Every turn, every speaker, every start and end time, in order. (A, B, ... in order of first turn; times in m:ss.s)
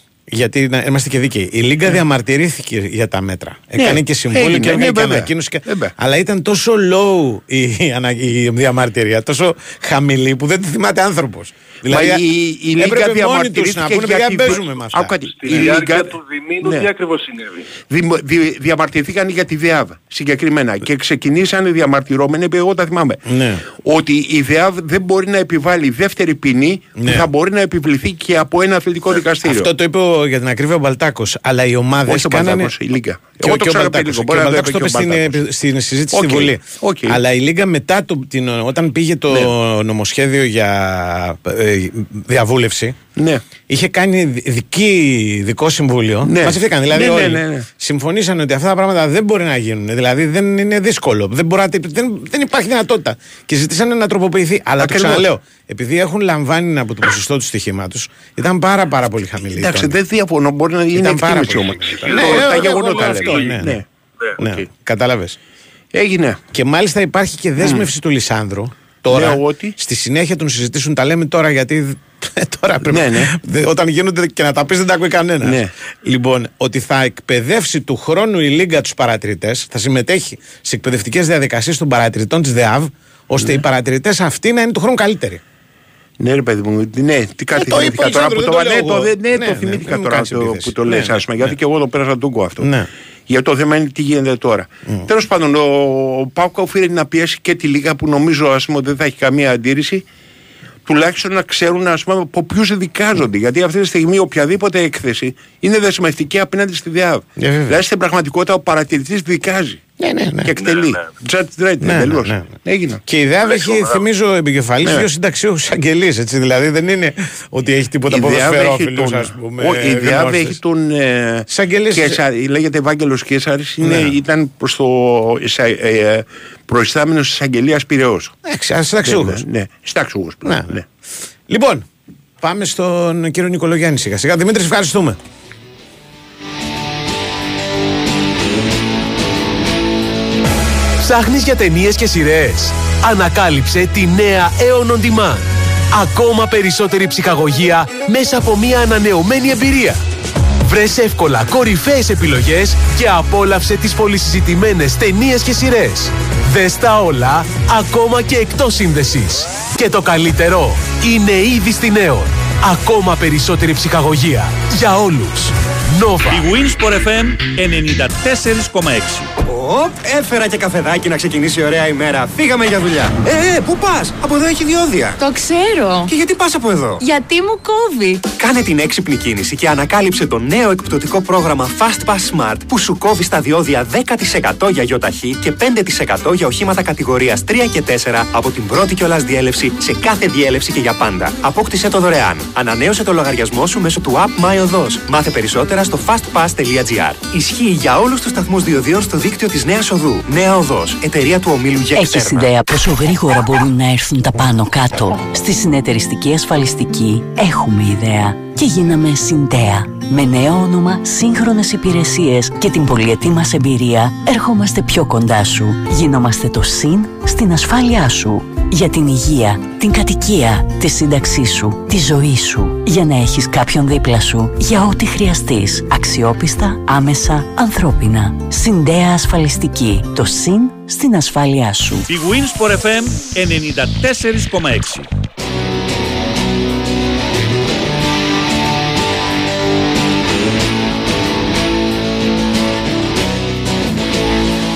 0:00.3-0:12.2 A
0:03.8-0:05.9 B
0:11.8-0:16.9 B
0:12.8-0:15.2 A
0:15.4-0:17.7 C
0:17.9-0:23.2 B
0:23.2-0:23.6 A
0:23.8-0:29.7 B
0:27.0-0:27.3 A
0:29.4-0:32.7 A
0:32.0-0:35.4 B
0:33.4-0:43.0 A
0:36.1-0:37.2 B
0:43.2-0:43.4 B
0:43.7-1:00.0 A
0:46.2-0:47.7 B
0:54.8-0:55.2 B
0:59.5-1:03.8 B
1:00.9-1:03.8 A
1:01.9-1:03.6 C
1:04.2-1:04.6 C
1:04.4-1:05.4 A
1:05.9-1:06.4 B
1:06.5-1:25.4 A
1:07.6-1:07.8 B
1:09.1-1:09.7 B
1:12.9-1:13.3 B
1:15.4-1:15.7 B
1:26.2-1:32.7 B
1:27.5-1:31.5 A
1:32.6-1:32.9 A
1:33.3-1:40.0 B
1:40.8-1:49.8 B
1:47.4-1:47.8 A
1:50.0-1:50.5 A
1:50.4-1:53.0 B
1:50.6-1:51.1 C
1:51.8-1:52.5 A
1:53.0-2:00.6 A
1:53.4-1:54.0 C
1:58.1-2:08.3 B
2:01.5-2:02.2 A
2:03.8-2:04.1 A
2:08.4-2:09.4 A
2:09.0-2:10.8 B
2:10.4-2:10.8 A
2:11.5-2:11.9 A
2:12.4-2:15.2 A
2:21.0-2:30.0 D
2:30.6-2:46.4 D
2:46.3-2:49.3 E
2:49.4-2:55.2 F
2:55.2-2:56.1 G
2:56.1-2:57.0 F
2:57.0-2:58.2 G
2:58.3-3:22.5 F
3:21.9-3:52.1 H
3:52.1-3:55.1 E